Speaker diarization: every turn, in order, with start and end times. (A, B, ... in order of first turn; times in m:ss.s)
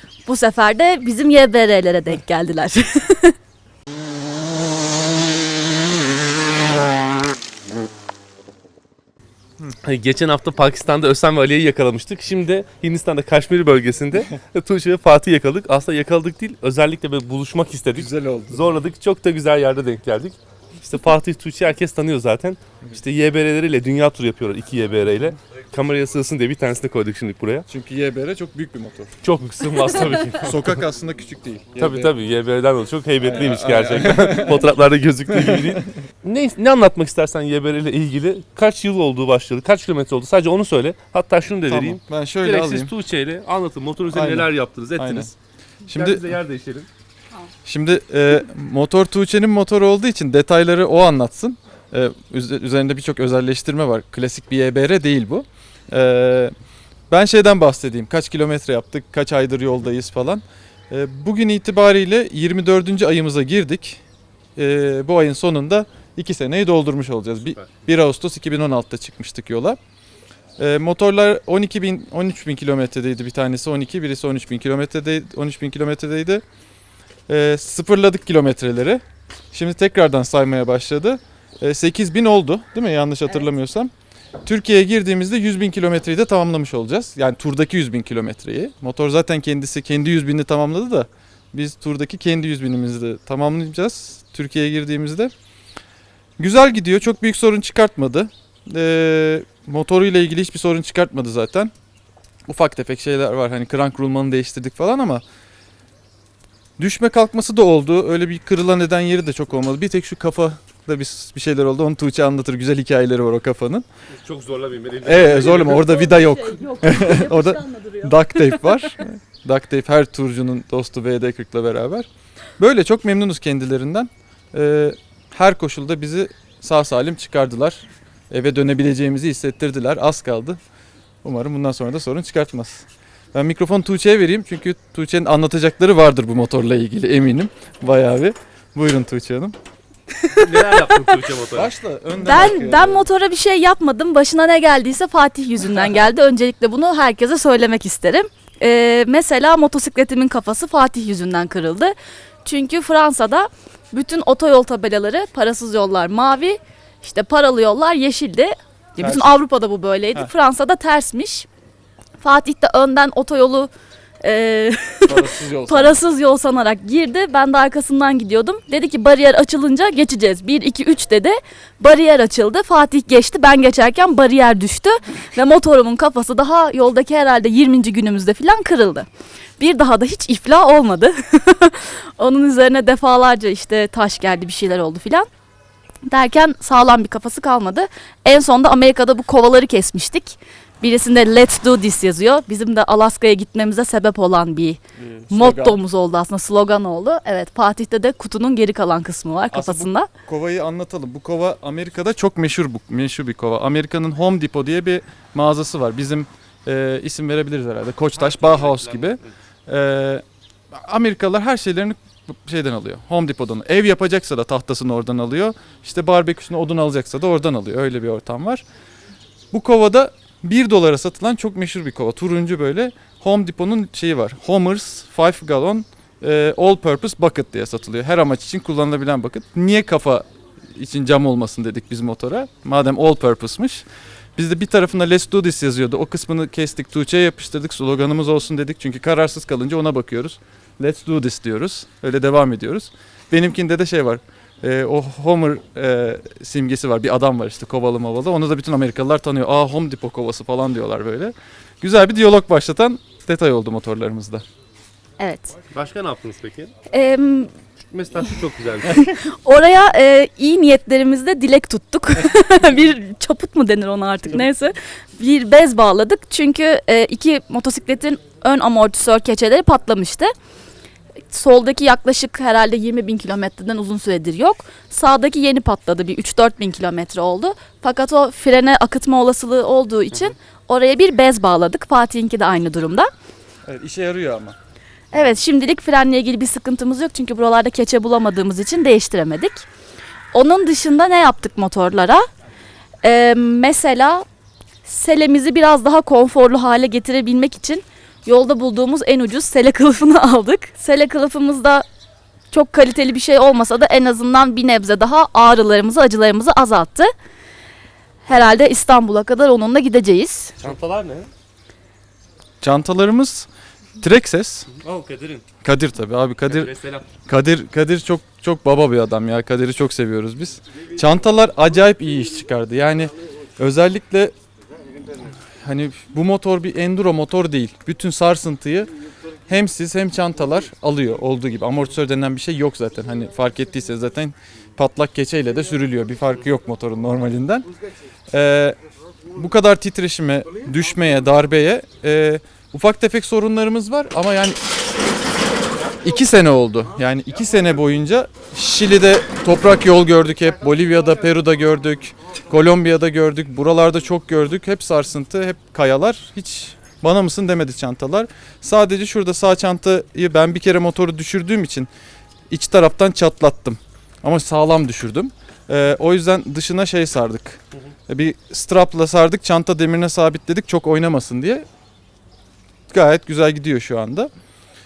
0:00.2-0:03.3 A
0:09.8-0:27.7 B
0:17.9-0:18.8 C
0:27.7-0:29.1 C
0:29.2-0:30.8 B
0:30.3-0:32.1 C
0:31.8-0:46.9 B
0:33.2-0:34.7 C
0:35.3-0:35.8 C
0:41.7-0:42.9 C
0:44.1-0:45.3 C
0:45.9-0:46.3 C
0:47.6-0:56.5 C
0:57.1-1:04.0 C
1:04.6-1:09.8 C
1:07.4-1:07.7 B
1:10.6-1:16.4 C
1:17.3-1:19.0 C
1:19.5-1:23.9 C
1:24.4-1:35.3 C
1:36.4-1:41.7 C
1:42.5-1:45.2 C
1:46.8-1:53.8 C
1:54.1-1:56.0 B
1:55.0-2:02.1 C
1:55.8-1:58.9 A
2:02.6-2:10.6 C
2:11.2-2:19.6 C
2:20.2-2:21.0 A
2:20.3-2:21.7 B
2:21.5-2:23.1 C
2:22.2-2:41.5 A
2:39.0-2:39.4 C
2:42.2-2:43.7 A
2:44.2-2:59.1 A
2:45.1-2:46.0 C
2:59.6-3:05.3 A
3:06.0-3:20.1 A
3:15.0-3:15.8 C
3:19.5-3:38.6 C
3:28.1-3:29.3 B
3:39.5-4:14.4 C
4:15.2-4:15.5 A
4:15.7-4:16.7 B
4:16.9-4:17.5 A
4:17.8-4:19.1 B
4:19.0-4:30.3 A
4:31.3-4:43.1 A
4:43.6-4:44.6 C
4:45.1-4:49.6 A
4:50.3-4:52.2 A
4:53.0-4:54.2 A
4:54.8-5:01.8 A
5:02.5-5:07.1 A
5:08.2-5:10.5 A
5:10.6-5:11.3 B
5:12.6-5:13.5 C
5:14.0-5:14.7 C
5:14.7-5:15.4 B
5:15.6-5:16.7 C
5:16.5-5:17.1 B
5:17.2-5:24.3 C
5:25.4-5:28.9 C
5:29.5-5:37.7 C
5:38.3-5:38.8 C
5:39.3-5:44.6 C
5:46.0-6:01.9 C
6:02.5-6:11.6 C
6:12.9-6:14.3 C